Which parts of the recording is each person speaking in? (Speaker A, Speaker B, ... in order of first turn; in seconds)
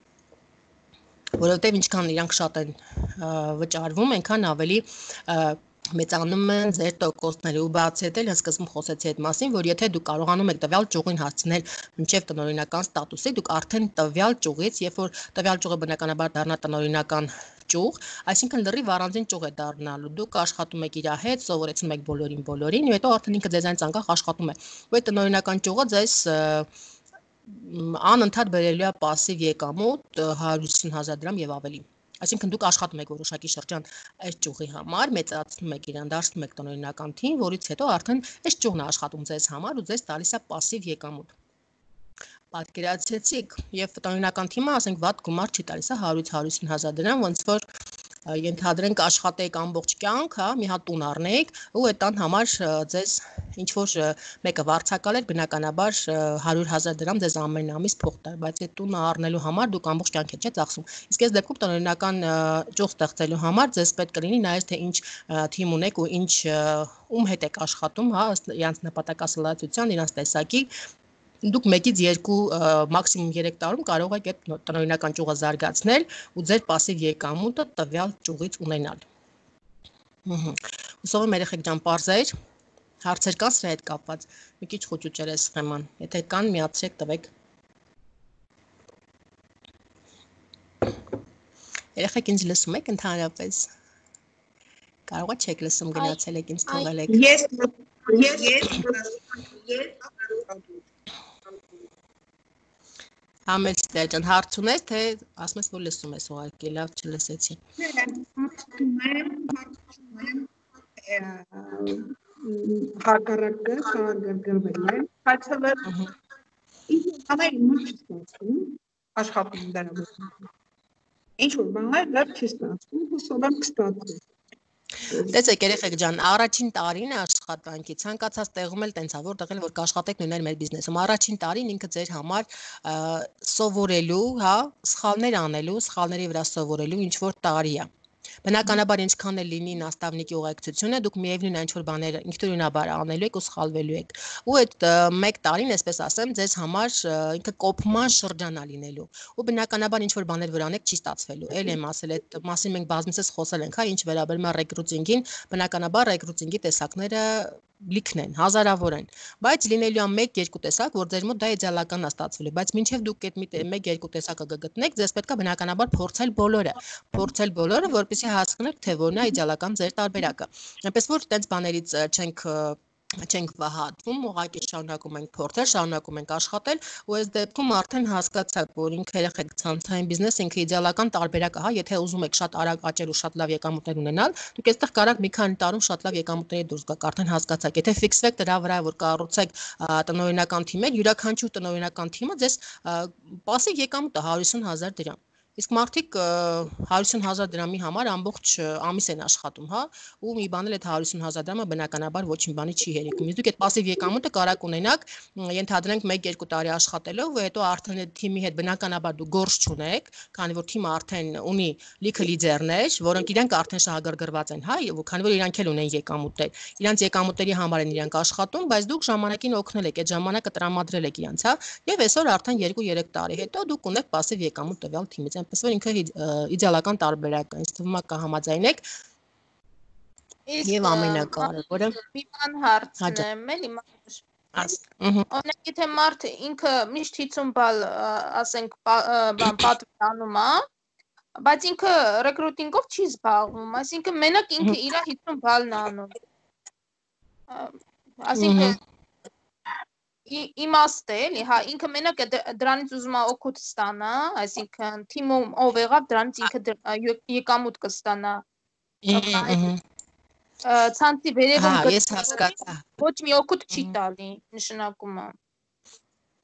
Speaker A: 1.4-26.7, 27.5-41.3, 42.5-47.6, 48.3-70.7, 71.4-79.0, 80.2-82.3, 83.0-87.3, 92.0-93.7, 95.1-97.2, 103.5-107.6, 125.2-137.9, 138.4-228.8, 230.6-231.9, 234.5-235.3, 248.3-248.8, 259.0-259.8, 261.6-262.8
Speaker B: 97.1-100.7, 107.8-115.9, 116.9-120.4, 121.4-124.2
Speaker C: 230.5-234.2, 235.3-240.6, 241.4-246.2, 247.5-248.8, 250.3-258.4, 259.1-259.7, 260.6-265.3